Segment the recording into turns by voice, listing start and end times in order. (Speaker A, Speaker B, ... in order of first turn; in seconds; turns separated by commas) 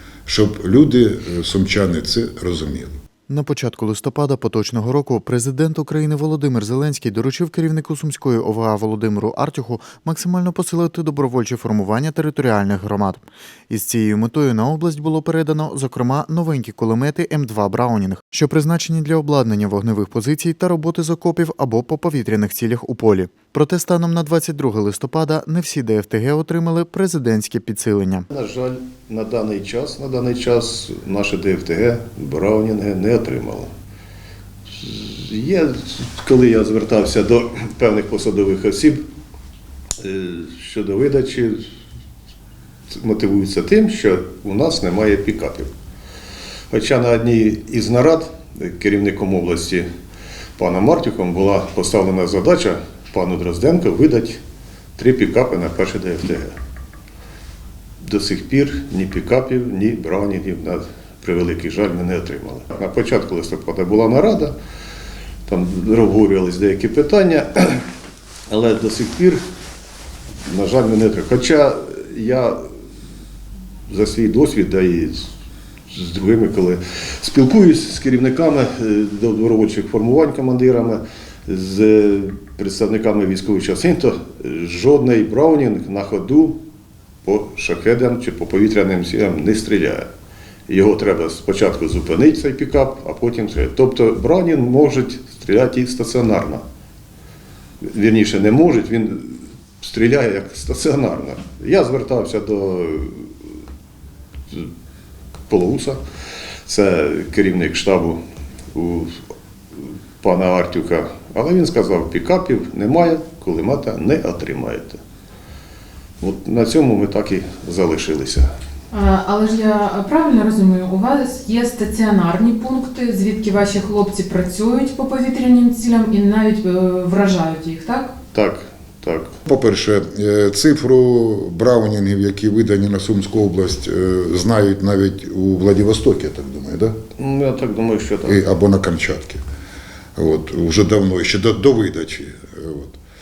Speaker A: 0.2-3.0, Speaker B: 3.3-28.2, Speaker C: 28.3-33.7, Speaker C: 34.7-39.1, Speaker C: 40.0-41.6, Speaker C: 42.9-45.7, Speaker C: 46.7-49.9, Speaker C: 50.6-54.4, Speaker C: 55.0-56.5, Speaker C: 58.0-64.6, Speaker C: 65.5-67.8, Speaker C: 68.5-69.4, Speaker C: 70.5-72.6, Speaker C: 73.9-75.3, Speaker C: 75.9-86.6, Speaker C: 87.2-90.1, Speaker C: 90.7-96.6, Speaker C: 97.8-103.3, Speaker C: 105.5-106.0, Speaker C: 106.7-108.2, Speaker C: 108.7-109.1, Speaker C: 109.8-115.0, Speaker C: 116.2-118.5, Speaker D: 118.9-128.1, Speaker C: 128.3-129.3, Speaker A: 129.5-136.9, Speaker C: 137.2-138.4, Speaker A: 138.2-139.4, Speaker A: 140.2-143.0